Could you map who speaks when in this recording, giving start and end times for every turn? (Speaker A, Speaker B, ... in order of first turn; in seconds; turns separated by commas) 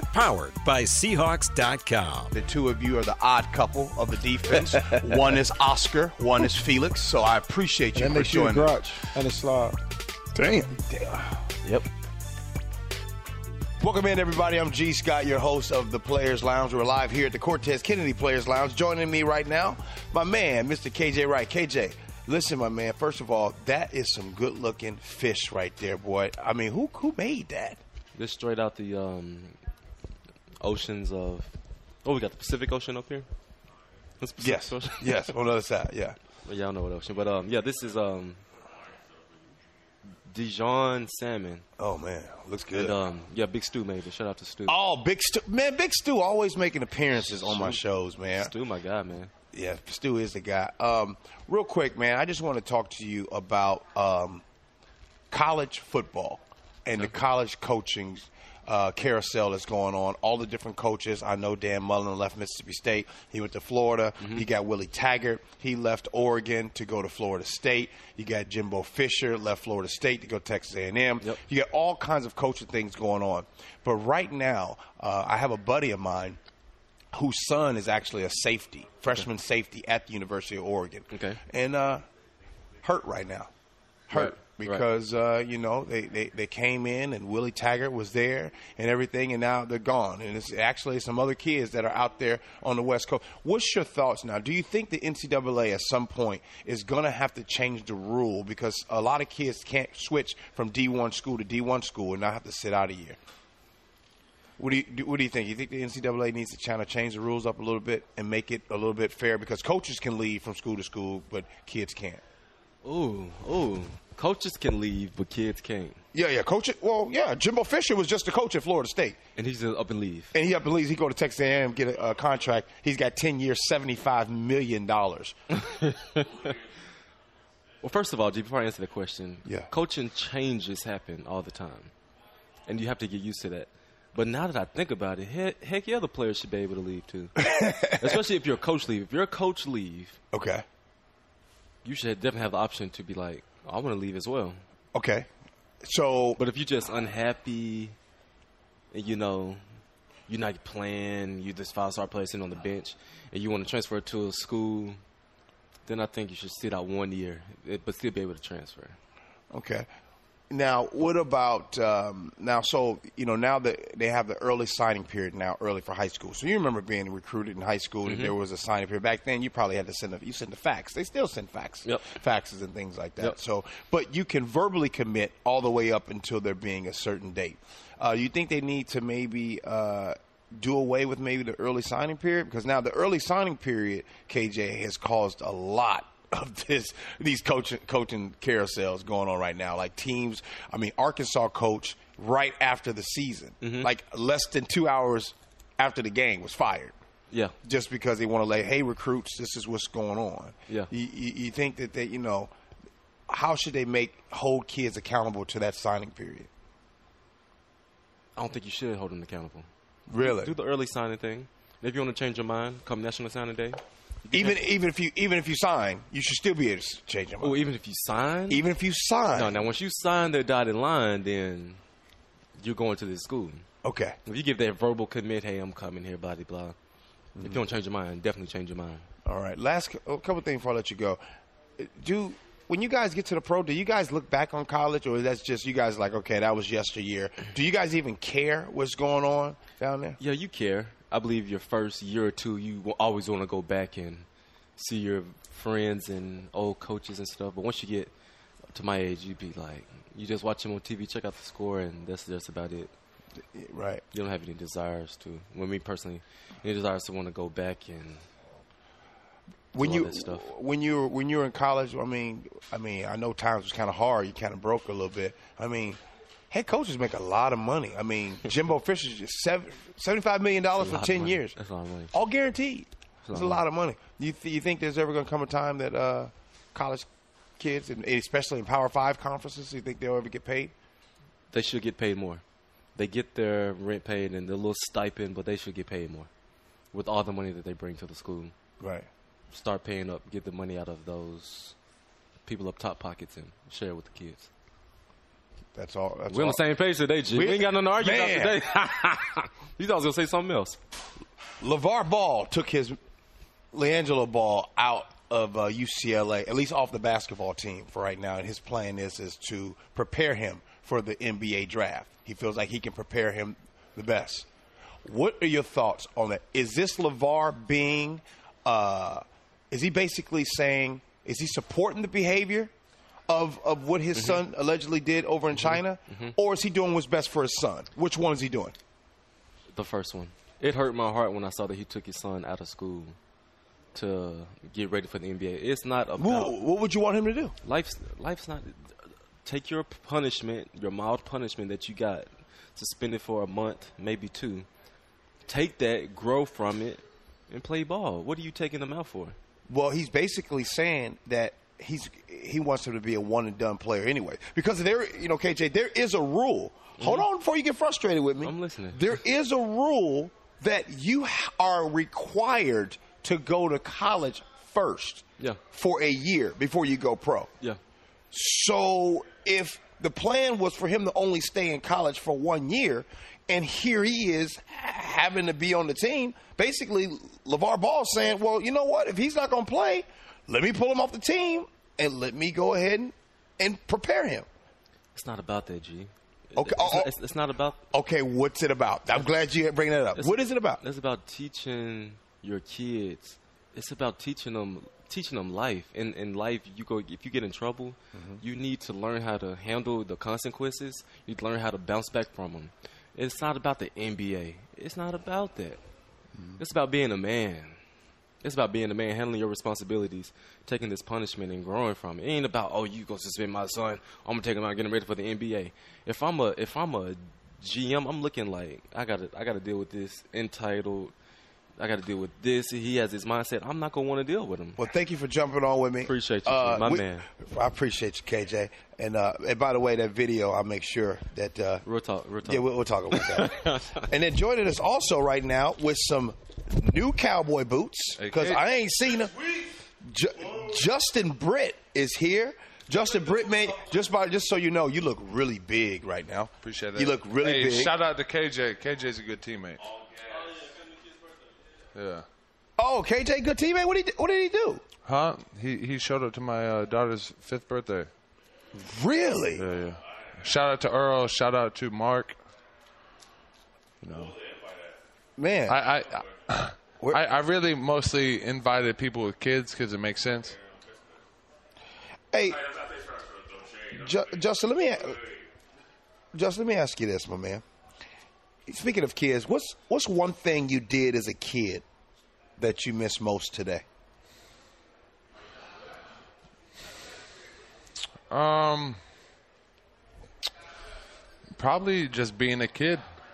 Speaker A: 0.1-2.3, Speaker B: 2.3-8.8, Speaker C: 8.0-9.8, Speaker C: 10.3-10.8, Speaker B: 10.8-11.5, Speaker B: 13.8-27.8, Speaker D: 28.1-29.6, Speaker D: 30.6-31.5, Speaker D: 32.0-33.3, Speaker D: 34.2-35.3, Speaker B: 34.4-36.2, Speaker D: 36.4-38.4, Speaker D: 40.2-41.6, Speaker B: 41.8-43.0, Speaker D: 42.7-44.8, Speaker B: 44.6-48.5, Speaker D: 47.2-49.3, Speaker B: 49.5-54.4, Speaker B: 55.3-76.4, Speaker D: 64.2-64.5, Speaker B: 77.1-82.0, Speaker D: 81.1-81.4, Speaker B: 82.8-83.5, Speaker B: 84.1-103.2, Speaker D: 84.1-84.9, Speaker B: 104.6-112.2, Speaker D: 112.8-116.0, Speaker B: 116.1-119.2, Speaker D: 119.3-120.3, Speaker B: 120.3-125.3, Speaker D: 125.5-126.6, Speaker D: 127.8-131.9, Speaker D: 132.7-140.2, Speaker B: 137.4-138.2, Speaker B: 140.3-140.6, Speaker D: 141.8-144.6, Speaker B: 144.9-145.3, Speaker B: 145.8-146.4, Speaker D: 146.4-147.9, Speaker D: 148.9-149.6, Speaker D: 150.3-155.0, Speaker D: 155.9-159.0, Speaker B: 159.5-159.9, Speaker B: 160.5-196.9, Speaker D: 168.0-168.3, Speaker D: 171.8-172.2, Speaker D: 193.6-193.9, Speaker B: 197.6-202.5, Speaker B: 203.3-206.5, Speaker D: 208.3-209.7, Speaker B: 210.1-210.5, Speaker D: 210.2-214.6, Speaker B: 214.3-217.6, Speaker D: 217.4-218.7, Speaker B: 218.5-219.6, Speaker D: 219.3-221.8, Speaker D: 222.6-223.7, Speaker B: 223.8-224.2, Speaker D: 224.2-226.8, Speaker D: 227.4-229.1, Speaker B: 229.2-231.2, Speaker B: 231.8-240.2, Speaker D: 240.2-248.1, Speaker D: 248.7-252.9, Speaker B: 253.5-254.0, Speaker D: 254.1-258.2, Speaker B: 259.7-266.0, Speaker D: 259.8-260.5, Speaker B: 266.5-271.6, Speaker D: 270.8-272.1, Speaker B: 272.1-277.1, Speaker D: 273.2-273.6, Speaker B: 277.6-280.7, Speaker D: 281.5-282.4, Speaker D: 282.9-286.3, Speaker D: 286.9-288.5, Speaker B: 288.8-289.1, Speaker D: 289.5-291.7, Speaker D: 292.4-294.5, Speaker B: 295.7-296.6, Speaker D: 296.3-300.8, Speaker B: 297.3-298.6, Speaker B: 301.6-303.0, Speaker B: 303.7-314.5, Speaker B: 315.0-322.7, Speaker B: 323.3-328.8, Speaker D: 324.1-324.4, Speaker D: 325.6-326.3, Speaker D: 329.7-333.1, Speaker D: 333.9-336.5, Speaker B: 336.2-337.5, Speaker D: 337.6-344.7, Speaker D: 345.5-349.4, Speaker B: 349.7-367.5, Speaker D: 357.0-357.2, Speaker D: 358.4-359.0, Speaker B: 368.3-384.4, Speaker D: 385.1-387.8, Speaker B: 386.6-387.1, Speaker B: 387.9-390.8, Speaker D: 390.1-405.8, Speaker B: 398.1-398.4, Speaker B: 406.3-406.6, Speaker D: 406.6-407.8, Speaker D: 408.4-421.1, Speaker D: 421.8-424.8, Speaker B: 424.8-431.8, Speaker D: 426.0-427.3, Speaker D: 431.8-434.0, Speaker B: 432.4-447.9, Speaker E: 438.2-438.6, Speaker E: 446.6-449.9, Speaker E: 451.9-452.2, Speaker B: 452.8-454.8, Speaker E: 455.0-458.1, Speaker B: 458.7-459.6, Speaker E: 459.5-462.3, Speaker E: 464.0-464.4, Speaker B: 465.4-465.8, Speaker E: 465.7-470.6, Speaker B: 472.3-472.8, Speaker B: 473.9-475.3, Speaker B: 476.3-477.6, Speaker B: 478.7-481.8, Speaker B: 482.6-483.8, Speaker E: 488.3-489.0, Speaker E: 491.6-493.0